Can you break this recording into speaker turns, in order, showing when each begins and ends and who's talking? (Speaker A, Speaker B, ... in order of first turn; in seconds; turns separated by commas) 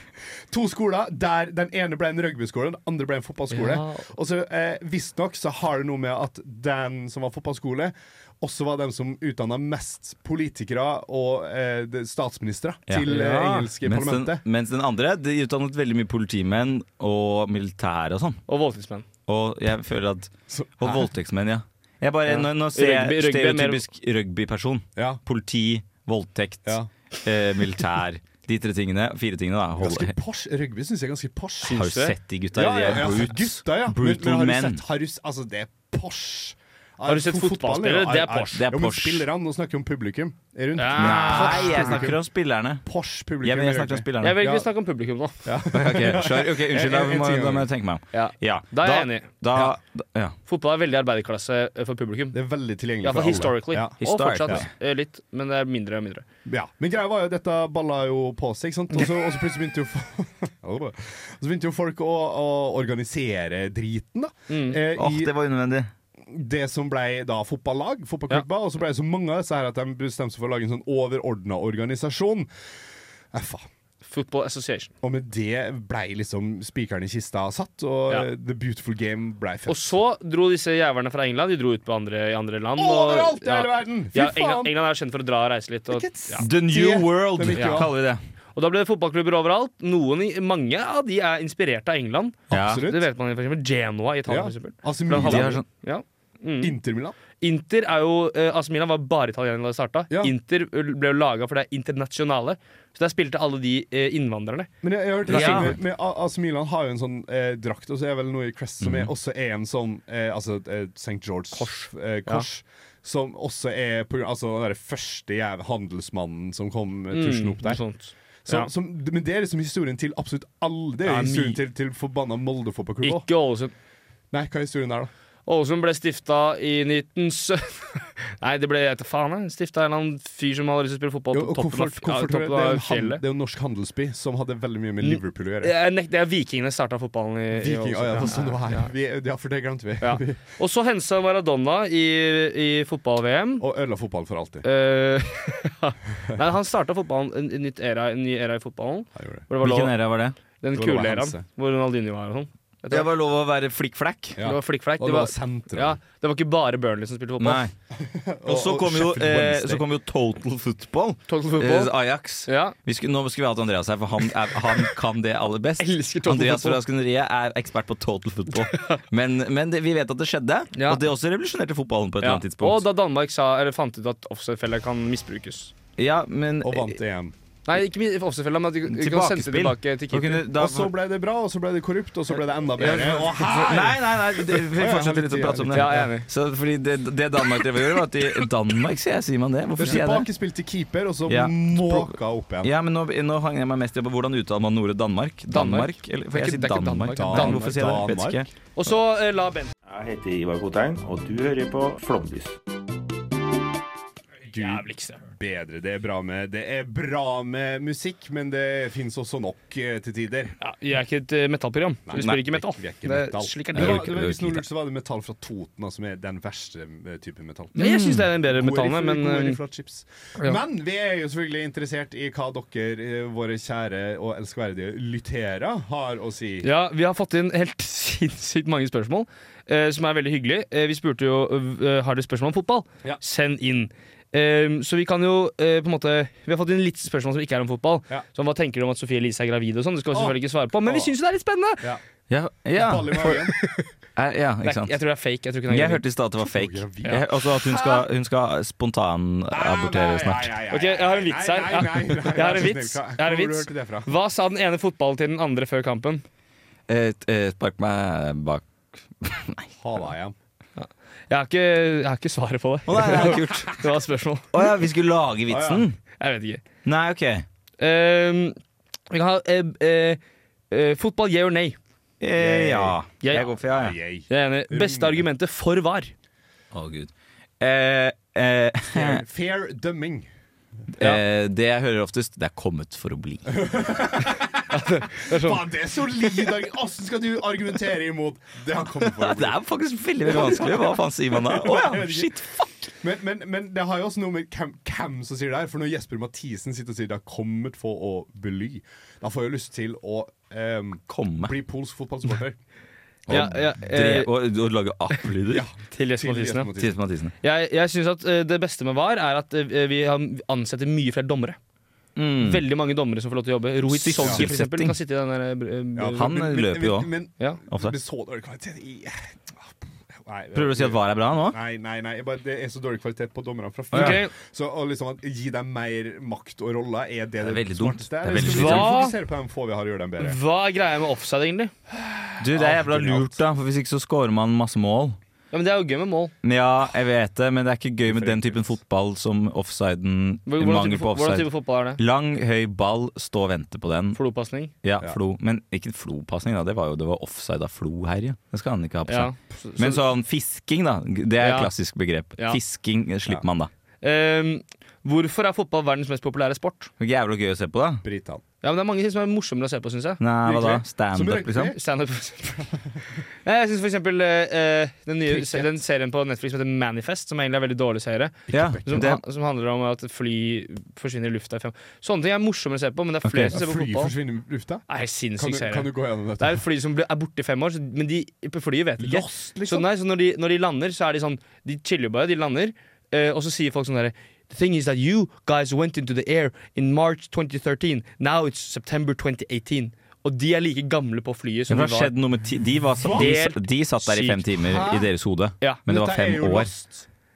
Speaker A: 0.5-14.4, Speaker B: 3.5-4.0, Speaker B: 13.1-13.7, Speaker C: 13.8-18.4, Speaker B: 18.5-19.0, Speaker C: 19.3-30.1, Speaker A: 20.5-21.1, Speaker B: 22.3-23.8, Speaker A: 29.8-31.8, Speaker B: 31.6-32.1, Speaker C: 31.7-34.8, Speaker A: 32.5-42.2, Speaker B: 37.0-38.6, Speaker C: 38.5-39.3, Speaker B: 40.8-42.0, Speaker C: 41.0-42.8, Speaker A: 42.8-44.7, Speaker C: 43.4-44.4, Speaker B: 44.2-45.5, Speaker A: 45.4-47.7, Speaker C: 45.7-50.3, Speaker B: 48.1-49.3, Speaker B: 50.5-52.4, Speaker A: 52.3-53.9, Speaker B: 53.0-56.2, Speaker C: 54.0-54.6, Speaker A: 56.5-65.3, Speaker B: 64.5-64.8, Speaker C: 65.0-65.9, Speaker A: 66.2-72.5, Speaker A: 73.3-73.7, Speaker B: 74.0-74.9, Speaker A: 75.0-79.9, Speaker B: 79.7-86.5, Speaker A: 82.8-84.7, Speaker A: 85.9-87.9, Speaker C: 86.4-88.2, Speaker B: 87.5-87.9, Speaker B: 88.5-96.7, Speaker A: 92.5-93.1, Speaker C: 92.5-92.8, Speaker A: 94.3-95.6, Speaker C: 95.1-95.6, Speaker A: 96.6-97.2, Speaker B: 97.4-104.7, Speaker A: 104.8-117.8, Speaker B: 105.3-105.7, Speaker C: 105.3-105.7, Speaker C: 108.8-109.1, Speaker B: 111.5-112.5, Speaker B: 117.1-118.7, Speaker A: 118.5-123.3, Speaker B: 121.0-121.6, Speaker B: 123.0-123.7, Speaker A: 124.3-125.1, Speaker B: 125.5-133.2, Speaker A: 131.3-135.7, Speaker B: 135.0-138.9, Speaker A: 137.5-140.4, Speaker B: 140.0-143.6, Speaker A: 143.6-144.6, Speaker B: 144.6-149.9, Speaker A: 149.2-149.5, Speaker C: 149.6-150.3, Speaker B: 150.6-153.1, Speaker A: 150.7-151.4, Speaker C: 152.9-154.4, Speaker A: 154.3-156.0, Speaker B: 154.4-157.6, Speaker C: 157.4-157.7, Speaker A: 157.9-159.8, Speaker C: 158.4-172.8, Speaker B: 161.3-161.9, Speaker B: 162.4-162.7, Speaker B: 165.8-166.8, Speaker B: 170.7-171.0, Speaker B: 172.2-175.7, Speaker C: 176.0-176.9, Speaker A: 176.6-177.3, Speaker B: 177.7-180.4, Speaker C: 178.9-180.9, Speaker A: 180.5-186.1, Speaker B: 182.8-183.2, Speaker C: 182.8-190.3, Speaker B: 185.7-186.3, Speaker A: 189.8-192.7, Speaker C: 191.3-198.5, Speaker B: 195.5-197.7, Speaker A: 197.2-198.5, Speaker B: 198.8-199.7, Speaker D: 199.8-202.5, Speaker B: 204.5-205.2, Speaker A: 204.5-210.5, Speaker B: 210.6-214.2, Speaker A: 212.1-217.8, Speaker C: 213.7-214.6, Speaker B: 217.8-219.6, Speaker C: 217.8-218.3, Speaker A: 218.4-226.7, Speaker B: 226.6-241.8, Speaker A: 240.1-241.1, Speaker C: 242.3-243.4, Speaker A: 242.8-243.6, Speaker C: 244.2-245.0, Speaker B: 244.6-246.0, Speaker C: 245.7-250.5, Speaker A: 246.4-248.1, Speaker A: 249.5-254.1, Speaker B: 250.7-256.2, Speaker C: 256.9-258.6, Speaker C: 259.2-259.7, Speaker A: 259.8-260.3, Speaker B: 260.8-264.4, Speaker C: 262.9-263.8, Speaker C: 264.5-266.0, Speaker A: 265.5-265.9, Speaker B: 266.2-266.6, Speaker C: 266.8-267.4, Speaker B: 267.8-268.6, Speaker B: 269.1-271.8, Speaker C: 272.2-273.9, Speaker A: 272.4-275.2, Speaker B: 273.2-273.5, Speaker B: 274.3-276.1, Speaker C: 276.7-279.2, Speaker A: 278.9-280.3, Speaker C: 281.0-283.6, Speaker A: 283.5-289.6, Speaker B: 284.7-285.6, Speaker C: 289.1-292.9, Speaker A: 290.2-292.3, Speaker A: 293.0-302.6, Speaker C: 301.1-301.5, Speaker C: 303.3-305.6, Speaker B: 303.3-304.3, Speaker A: 305.5-307.0, Speaker B: 305.9-306.7, Speaker C: 306.8-307.3, Speaker B: 307.4-311.6, Speaker C: 312.1-312.6, Speaker B: 312.4-316.4, Speaker C: 313.9-315.0, Speaker A: 314.2-314.4, Speaker A: 315.9-319.7, Speaker C: 316.1-317.1, Speaker A: 320.2-330.4, Speaker C: 320.5-321.6, Speaker C: 323.9-324.2, Speaker B: 323.9-324.3, Speaker C: 327.4-328.9, Speaker B: 328.3-329.1, Speaker B: 330.2-331.7, Speaker C: 332.4-335.2, Speaker A: 332.5-333.4, Speaker B: 335.5-336.3, Speaker C: 336.4-344.2, Speaker A: 338.1-338.8, Speaker B: 340.5-342.0, Speaker B: 344.1-344.7, Speaker C: 344.8-353.7, Speaker B: 349.1-350.0, Speaker B: 351.4-351.7, Speaker B: 354.0-356.9, Speaker C: 357.0-358.0, Speaker A: 358.0-358.4, Speaker B: 358.6-360.2, Speaker C: 360.2-361.7, Speaker A: 360.4-361.8, Speaker B: 361.7-362.7, Speaker B: 363.4-374.1, Speaker A: 365.3-365.7, Speaker A: 368.5-369.1, Speaker C: 368.5-369.2, Speaker C: 373.2-373.6, Speaker A: 373.5-374.8, Speaker B: 374.9-392.1, Speaker A: 375.4-376.6, Speaker A: 379.0-379.9, Speaker C: 391.7-396.7, Speaker A: 393.1-393.3, Speaker B: 393.1-394.4, Speaker A: 394.6-395.1, Speaker A: 395.9-397.1